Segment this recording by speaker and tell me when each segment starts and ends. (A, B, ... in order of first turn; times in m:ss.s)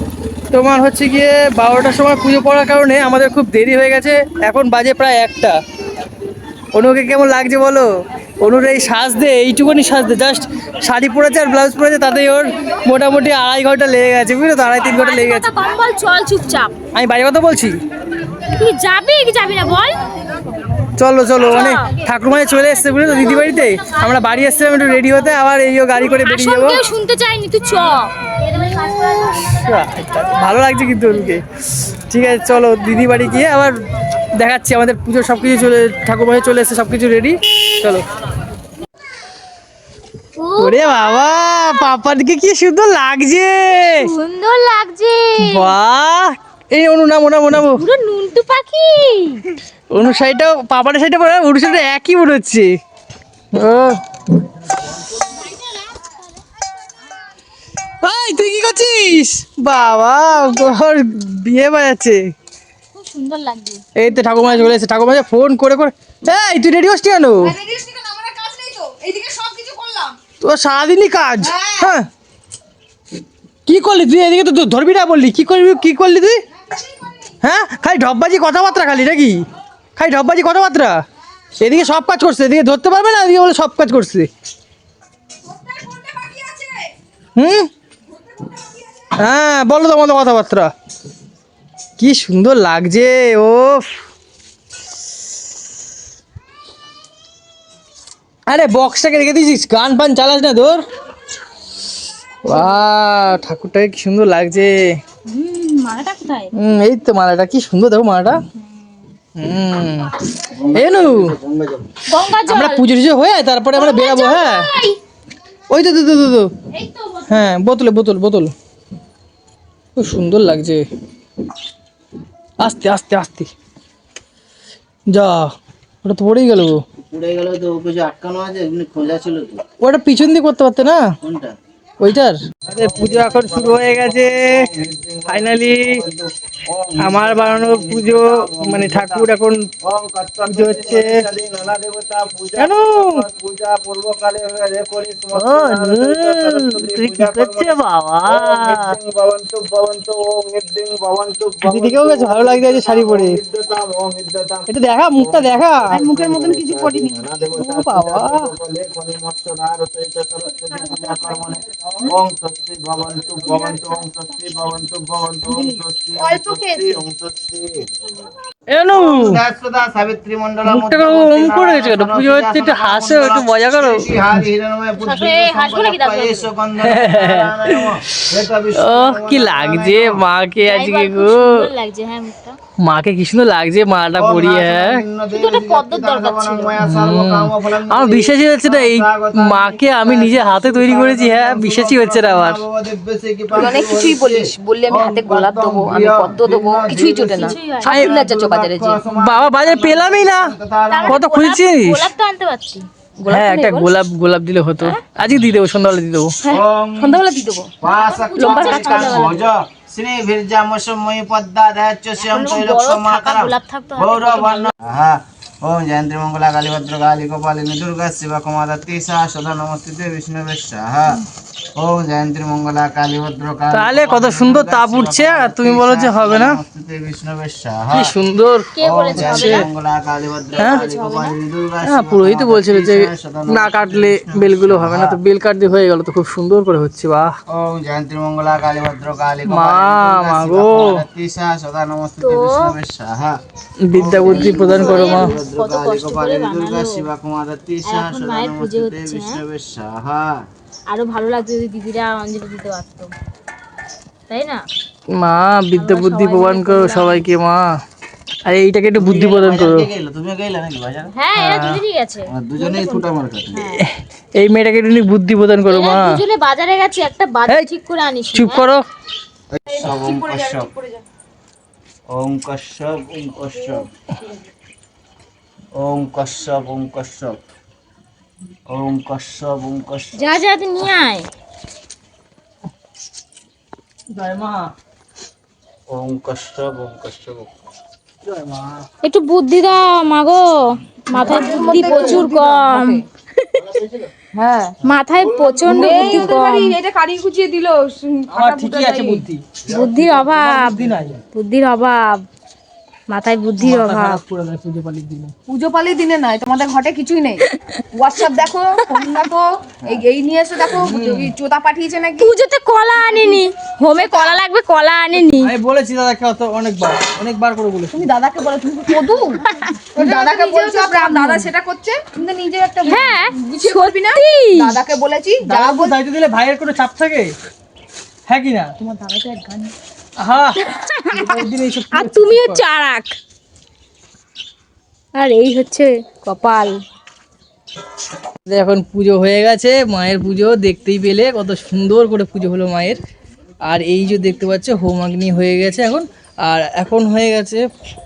0:00.5-0:05.6 A
0:06.7-0:07.9 A
0:08.4-0:15.5 A
0:14.8-0:16.8 B
0:16.9-0:17.8 A
0:18.6-0:20.0 B
0:21.0-0:26.9 A
0:21.4-0:22.0 B
0:23.0-0:24.9 B
0:26.1-0:29.3 B
0:28.8-0:33.8 A
0:34.4-0:38.0 A
0:40.4-0:41.9 B
0:40.6-0:44.1 A
0:43.7-0:45.7 B
0:45.4-0:47.8 A
0:47.8-0:49.4 B
0:49.9-0:52.7 A
0:53.5-0:54.0 A
0:55.2-0:56.2 B
0:58.0-1:02.3 A
0:59.8-1:00.7 B
1:02.9-1:04.7 B
1:04.0-1:07.5 A
1:07.4-1:10.2 C
1:10.4-1:12.0 A
1:11.4-1:12.0 C
1:13.7-1:16.4 A
1:17.4-1:21.0 A
1:21.6-1:24.3 A
1:27.4-1:27.7 A
1:29.2-1:30.7 A
1:32.0-1:34.0 A
1:38.5-1:40.8 A
1:42.4-1:45.0 A
1:45.3-1:46.5 B
1:46.6-1:48.4 A
1:49.4-1:50.1 A
1:50.5-1:51.9 D
1:50.7-1:51.4 A
1:52.1-1:52.8 B
1:52.4-1:54.7 A
1:53.7-1:55.0 B
1:55.7-1:56.5 A
1:56.7-1:57.6 B
1:57.3-1:58.5 A
2:00.0-2:00.8 A
2:02.6-2:03.5 A
2:05.1-2:05.5 A
2:06.0-2:06.8 A
2:07.0-2:09.6 D
2:09.8-2:11.2 A
2:11.2-2:11.6 D
2:12.0-2:14.7 A
2:12.7-2:19.3 D
2:15.3-2:16.0 A
2:17.0-2:19.7 A
2:19.8-2:47.9 D
2:20.5-2:21.2 A
2:22.6-2:23.3 A
2:25.3-2:29.0 A
2:31.6-2:33.4 A
2:34.7-2:36.0 A
2:35.9-2:37.3 C
2:37.5-2:38.5 A
2:45.7-2:47.0 C
2:48.7-2:49.4 A
2:48.9-3:00.2 D
2:50.6-2:54.4 A
2:55.0-2:56.5 B
2:56.8-3:01.7 A
3:00.6-3:02.6 B
3:02.8-3:05.0 A
3:04.2-3:21.2 D
3:05.3-3:06.8 B
3:06.8-3:12.6 A
3:13.5-3:19.0 C
3:17.3-3:18.0 B
3:17.8-3:18.2 A
3:19.1-3:22.1 A
3:20.9-3:22.9 B
3:23.2-3:24.0 C
3:23.2-3:26.3 A
3:26.5-3:27.2 D
3:26.5-3:27.7 C
3:27.8-3:41.2 D
3:27.9-3:29.4 B
3:28.7-3:29.3 C
3:32.2-3:34.7 B
3:41.8-3:48.1 D
3:43.7-3:46.6 A
3:47.9-3:49.7 A
3:48.8-3:49.7 B
3:48.8-3:55.2 D
3:50.6-3:51.4 B
3:50.6-3:50.8 A
3:51.8-3:57.4 A
3:57.5-4:03.4 D
3:59.4-4:01.0 A
4:02.2-4:02.7 B
4:03.8-4:05.4 A
4:03.9-4:10.4 D
4:04.2-4:07.0 B
4:07.8-4:09.4 B
4:10.9-4:13.1 B
4:14.3-4:14.6 B
4:15.2-4:17.6 A
4:15.7-4:17.3 B
4:18.5-4:19.9 A
4:19.0-4:21.1 D
4:21.2-4:23.8 B
4:21.4-4:21.8 A
4:22.3-4:23.7 D
4:23.8-4:26.2 A
4:25.7-4:28.7 B
4:28.3-4:28.8 A
4:29.7-4:31.0 C
4:29.7-4:30.7 D
4:32.1-4:33.9 D
4:35.7-4:37.4 D
4:38.7-4:40.2 D
4:40.2-4:41.3 B
4:44.1-4:44.7 A
4:45.9-4:47.5 D
4:48.2-4:48.8 A
4:49.0-4:53.6 B
4:51.1-4:53.0 C
4:51.7-4:52.2 D
4:53.7-4:54.1 D
4:54.4-4:54.8 C
4:54.8-4:56.8 B
4:55.1-4:56.3 D
4:55.6-4:59.2 C
4:58.3-5:01.2 A
4:59.7-5:00.8 B
5:01.3-5:02.2 B
5:03.1-5:04.2 B
5:03.6-5:05.3 A
5:05.5-5:12.3 C
5:07.5-5:07.8 B
5:10.8-5:11.3 A
5:12.2-5:15.5 B
5:13.1-5:13.4 C
5:13.9-5:14.4 C
5:15.2-5:18.0 A
5:17.9-5:19.4 C
5:19.5-5:21.4 B
5:20.0-5:26.0 C
5:22.9-5:24.8 B
5:25.5-5:27.4 A
5:28.3-5:28.7 A
5:28.8-5:29.7 C
5:30.2-5:32.6 A
5:30.6-5:33.2 B
5:35.2-5:36.8 B
5:38.5-5:43.0 A
5:43.7-5:47.6 A